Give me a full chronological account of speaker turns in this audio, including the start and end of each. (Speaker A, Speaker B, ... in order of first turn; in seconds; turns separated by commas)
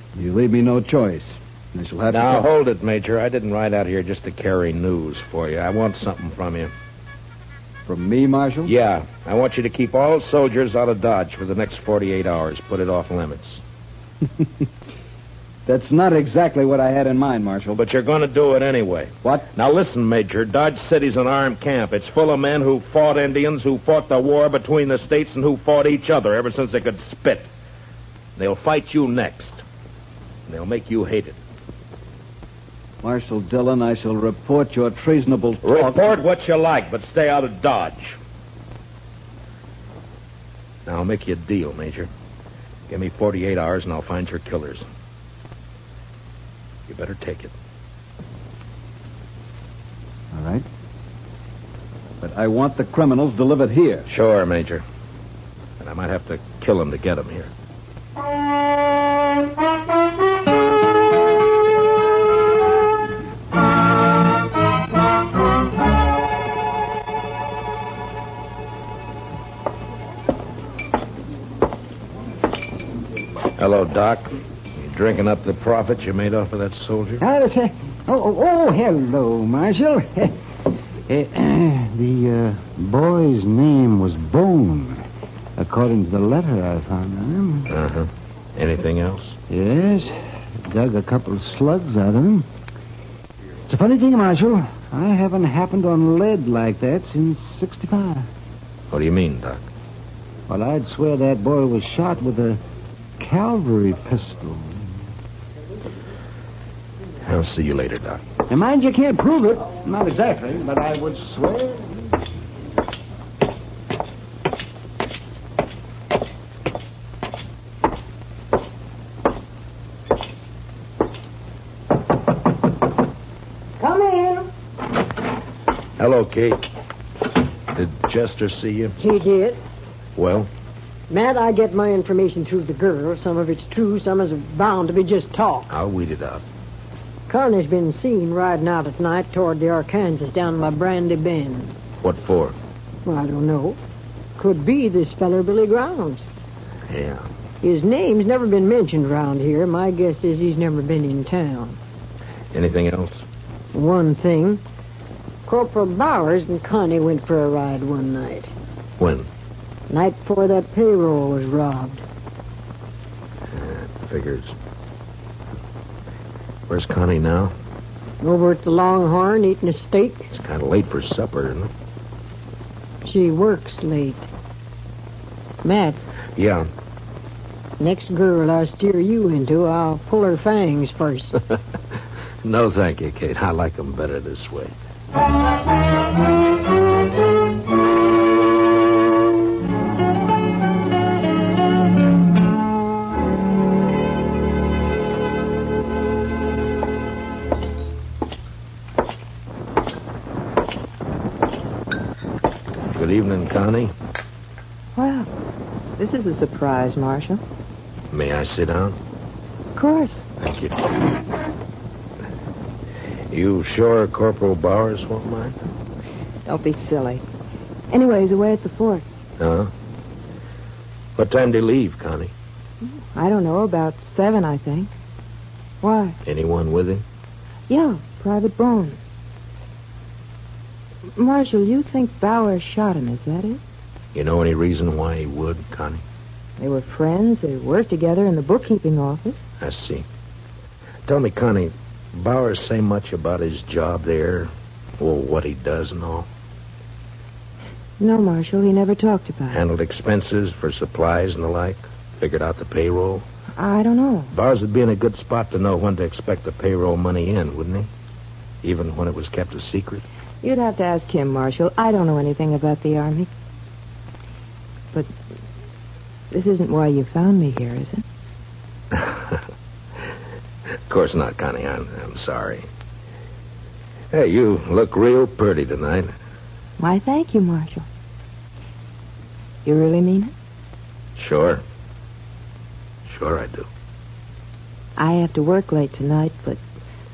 Speaker A: 0.1-2.5, Speaker B: 2.1-6.7, Speaker A: 7.9-8.7, Speaker B: 8.6-13.6, Speaker A: 15.7-17.8, Speaker B: 17.7-27.5, Speaker B: 28.4-29.6, Speaker B: 30.5-31.4, Speaker A: 33.0-36.1, Speaker B: 35.6-38.2, Speaker B: 40.9-42.1, Speaker B: 42.9-44.8, Speaker B: 46.9-47.5, Speaker C: 50.4-50.6, Speaker A: 52.2-54.1, Speaker B: 54.1-54.8, Speaker B: 55.8-57.5, Speaker B: 73.6-77.2, Speaker C: 77.2-80.3, Speaker C: 81.1-85.0, Speaker C: 85.6-87.7, Speaker B: 87.7-89.4, Speaker C: 89.5-92.5, Speaker C: 93.7-98.3, Speaker B: 98.9-99.6, Speaker C: 100.5-102.6, Speaker C: 103.2-104.9, Speaker B: 107.2-108.2, Speaker C: 108.5-112.1, Speaker D: 123.8-124.5, Speaker B: 126.0-126.6, Speaker B: 127.7-128.9, Speaker D: 129.0-129.6, Speaker B: 130.2-130.5, Speaker D: 131.1-135.7, Speaker B: 135.7-136.4, Speaker D: 137.3-141.7, Speaker B: 142.0-142.6, Speaker D: 143.0-143.8, Speaker D: 144.4-146.2, Speaker B: 146.9-147.2, Speaker D: 147.6-151.8, Speaker B: 152.5-153.2, Speaker D: 153.7-154.6, Speaker D: 155.4-158.5, Speaker B: 159.0-159.3, Speaker D: 159.9-162.0, Speaker B: 163.5-164.5, Speaker B: 166.7-167.5, Speaker D: 168.2-170.3, Speaker B: 170.3-171.7, Speaker D: 173.0-174.3, Speaker D: 175.6-176.0, Speaker B: 176.3-176.7, Speaker D: 177.8-181.4, Speaker B: 182.4-184.7, Speaker B: 202.9-203.9, Speaker E: 204.9-205.3, Speaker E: 206.0-207.4, Speaker B: 208.1-209.0, Speaker E: 209.7-210.3, Speaker B: 210.4-210.8, Speaker B: 213.3-215.6, Speaker E: 216.4-217.2, Speaker E: 217.9-219.0, Speaker B: 219.4-219.7, Speaker B: 221.2-222.3, Speaker E: 222.8-224.9, Speaker E: 225.8-226.2, Speaker B: 226.2-227.0, Speaker E: 227.7-229.0, Speaker E: 231.1-233.6, Speaker B: 234.1-236.0, Speaker E: 236.6-239.4, Speaker B: 239.6-240.0, Speaker B: 241.1-246.3, Speaker E: 248.0-249.6, Speaker B: 249.5-253.2, Speaker E: 253.6-254.3, Speaker B: 254.3-257.9, Speaker B: 258.6-260.0, Speaker E: 260.4-263.3, Speaker E: 266.3-268.0, Speaker B: 268.9-269.4, Speaker B: 270.9-272.6, Speaker B: 274.1-276.1, Speaker E: 276.8-277.9, Speaker E: 279.6-280.3, Speaker B: 281.2-281.6, Speaker B: 283.1-283.7, Speaker E: 285.0-286.6